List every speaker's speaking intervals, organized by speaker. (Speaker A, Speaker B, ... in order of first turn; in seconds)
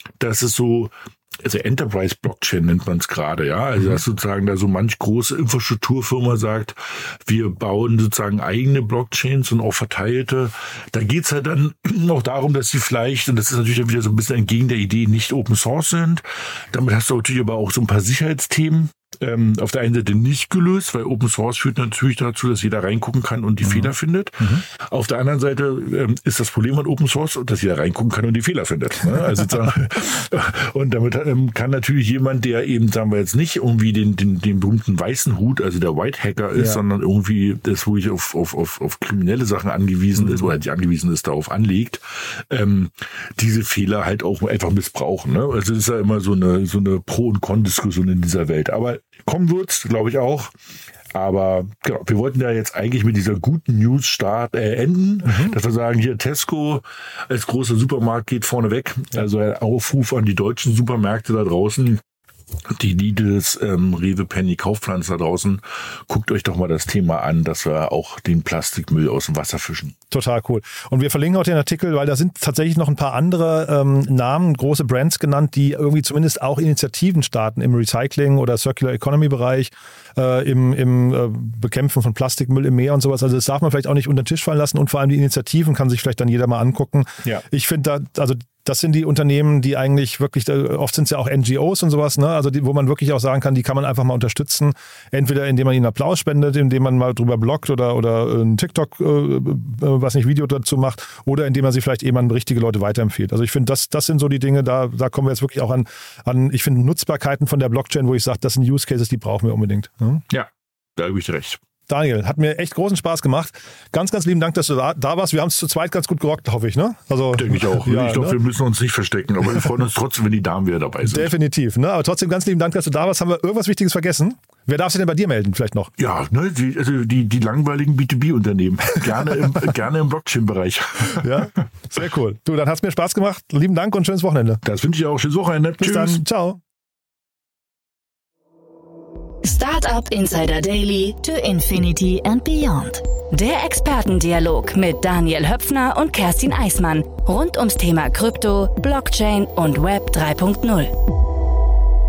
Speaker A: 0.2-50.5, 51.1-62.0, 62.7-70.0, 110.3-111.6, 117.3-121.3, 126.0-131.5, 134.6-136.2
Speaker B: 55.3-55.5, 70.1-110.2, 111.9-118.4, 121.1-125.9, 131.1-134.6, 135.8-136.6
Speaker C: 139.4-150.9